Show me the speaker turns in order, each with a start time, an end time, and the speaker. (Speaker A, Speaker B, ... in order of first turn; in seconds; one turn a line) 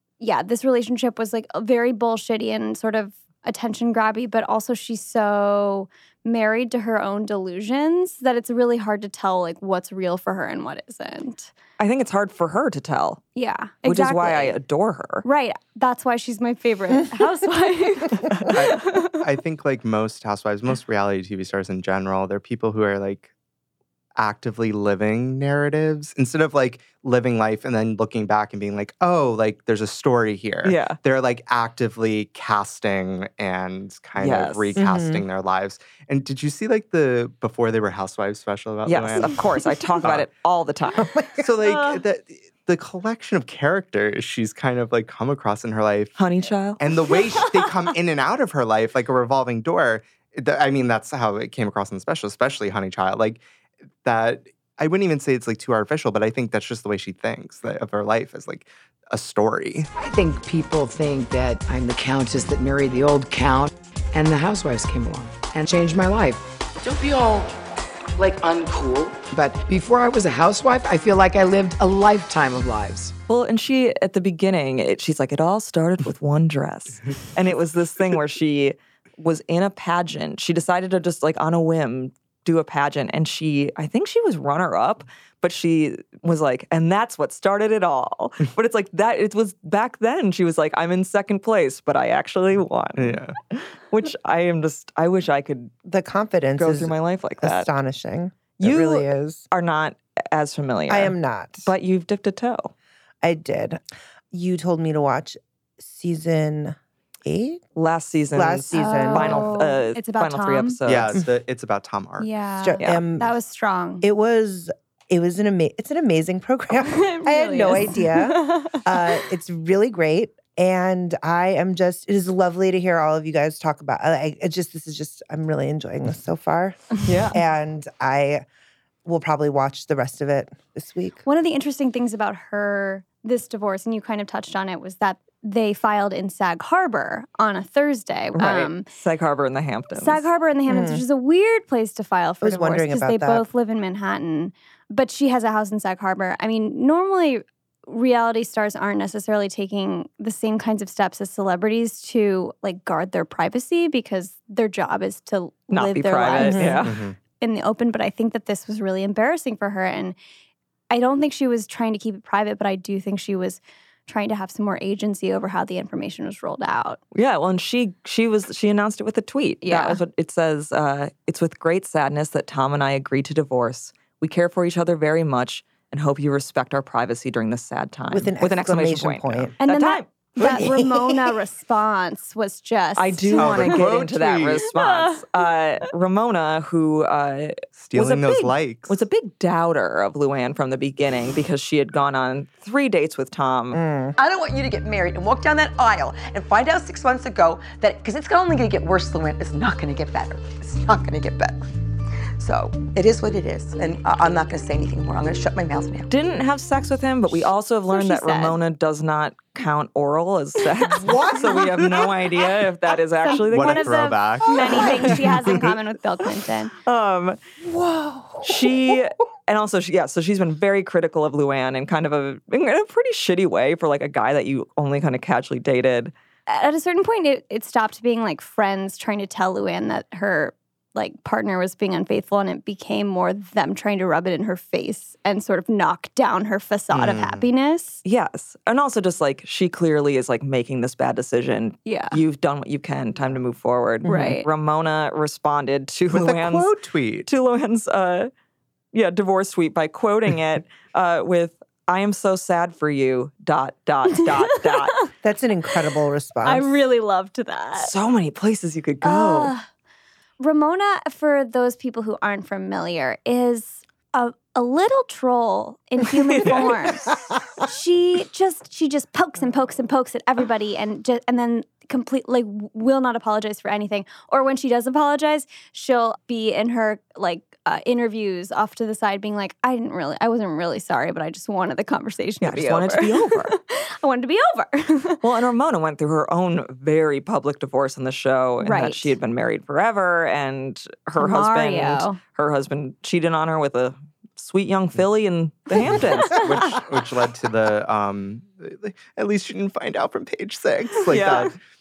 Speaker A: 0.2-11.5
Speaker B: 11.8-13.2
Speaker A: 13.4-14.6
Speaker B: 13.8-15.2
Speaker A: 15.2-19.1
Speaker C: 18.5-23.3
Speaker C: 24.2-39.5
Speaker B: 30.6-31.0
Speaker B: 34.2-34.8
Speaker D: 34.8-35.3
Speaker B: 38.9-41.1
Speaker C: 40.0-40.3
Speaker D: 41.0-41.5
Speaker C: 41.4-46.2
Speaker B: 46.2-46.8
Speaker C: 46.8-53.4
Speaker C: 54.0-59.9
Speaker E: 60.0-67.5
Speaker E: 68.2-73.1
Speaker B: 73.3-95.7
Speaker C: 93.0-93.4
Speaker D: 95.8-99.5
Speaker B: 96.6-97.7
Speaker B: 98.6-102.7
Speaker D: 100.9-101.7
Speaker D: 103.2-103.8
Speaker D: 104.3-107.6
Speaker B: 107.8-111.2
Speaker D: 108.3-109.6
Speaker A: 108.7-110.8
Speaker C: 110.9-112.3
Speaker A: 112.2-114.0
Speaker D: 112.6-113.3
Speaker D: 114.0-128.4
Speaker A: 116.8-118.8
Speaker B: 127.1-127.4
Speaker D: 129.1-131.2
Speaker A: 131.2-138.9
Speaker B: 138.3-140.3
Speaker A: 139.9-156.8
Speaker D: 140.7-141.0
Speaker D: 142.4-143.5
Speaker B: 155.7-157.0
Speaker D: 156.4-156.9
Speaker C: 156.8-157.2
Speaker A: 157.4-160.2
Speaker A: 160.9-167.0
Speaker B: 167.1-180.1
Speaker A: 169.6-170.0
Speaker D: 178.1-179.5
Speaker A: 179.6-183.9
Speaker D: 180.4-181.3
Speaker B: 183.0-193.8
Speaker C: 183.4-184.7
Speaker A: 184.7-185.2
Speaker C: 187.8-189.0
Speaker D: 193.7-194.2
Speaker F: 194.2-201.6
Speaker F: 202.4-206.1
Speaker B: 206.1-214.0
Speaker A: 207.9-208.6
Speaker C: 213.5-215.8
Speaker A: 213.5-216.7
Speaker B: 216.8-217.4
Speaker D: 217.6-219.0
Speaker B: 218.4-226.1
Speaker A: 226.5-238.0
Speaker C: 236.9-237.4
Speaker B: 238.1-246.7
Speaker A: 241.9-242.2
Speaker A: 244.1-244.5
Speaker C: 246.1-247.3
Speaker B: 247.3-248.3
Speaker B: 248.9-255.0
Speaker D: 255.2-256.7
Speaker A: 256.4-257.9
Speaker B: 257.8-259.5
Speaker A: 259.0-259.7
Speaker A: 260.4-285.2
Speaker B: 266.2-266.9
Speaker B: 282.4-283.6
Speaker B: 285.2-296.5
Speaker A: 288.6-289.1
Speaker A: 291.2-292.2
Speaker C: 296.3-301.6
Speaker B: 301.1-301.5